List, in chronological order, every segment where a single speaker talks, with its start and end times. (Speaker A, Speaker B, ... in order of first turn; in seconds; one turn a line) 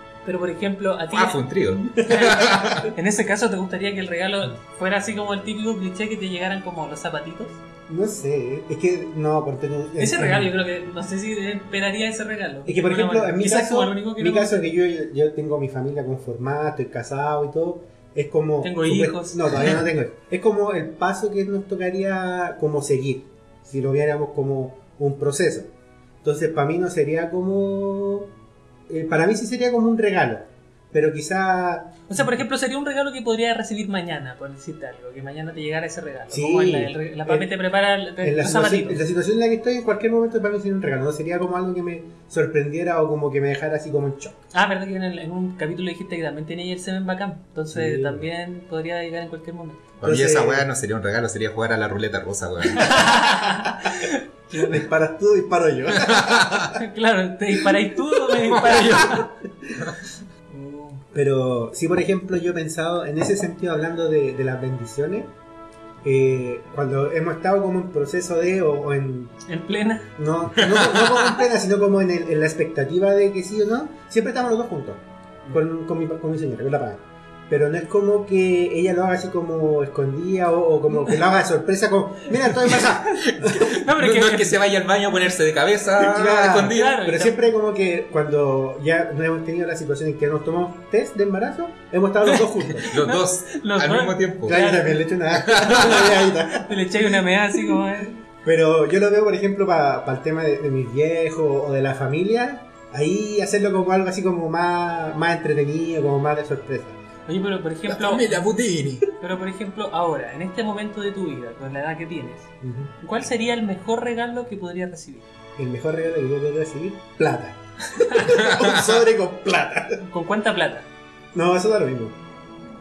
Speaker A: 0.2-1.4
Speaker B: 1.1-2.9
Speaker A: 1.9-7.6
Speaker C: 2.2-2.6
Speaker C: 7.9-10.5
Speaker A: 10.0-14.7
Speaker C: 12.7-25.7
Speaker A: 18.6-19.7
Speaker C: 26.2-28.3
Speaker C: 28.9-32.4
Speaker A: 32.1-39.0
Speaker C: 36.3-37.5
Speaker C: 38.2-44.4
Speaker A: 44.5-49.9
Speaker C: 47.7-48.3
Speaker B: 50.0-53.1
Speaker C: 50.0-50.7
Speaker A: 52.7-54.8
Speaker C: 54.5-56.7
Speaker B: 55.9-56.7
Speaker A: 56.7-59.3
Speaker B: 58.4-59.2
Speaker C: 58.5-59.8
Speaker A: 60.5-61.0
Speaker C: 61.1-65.3
Speaker C: 66.0-69.4
Speaker A: 69.5-70.1
Speaker C: 70.2-83.8
Speaker B: 70.6-71.4
Speaker B: 82.6-87.0
Speaker A: 83.6-84.6
Speaker C: 85.9-92.9
Speaker A: 86.7-87.3
Speaker A: 92.3-95.0
Speaker B: 92.8-94.6
Speaker C: 94.4-97.0
Speaker B: 95.3-96.2
Speaker A: 96.6-98.2
Speaker C: 98.4-107.0
Speaker A: 107.3-108.4
Speaker B: 107.9-109.0
Speaker A: 109.1-115.2
Speaker C: 112.6-112.9
Speaker C: 115.6-120.1
Speaker A: 117.9-118.4
Speaker B: 118.4-118.8
Speaker A: 120.1-120.9
Speaker C: 121.3-122.2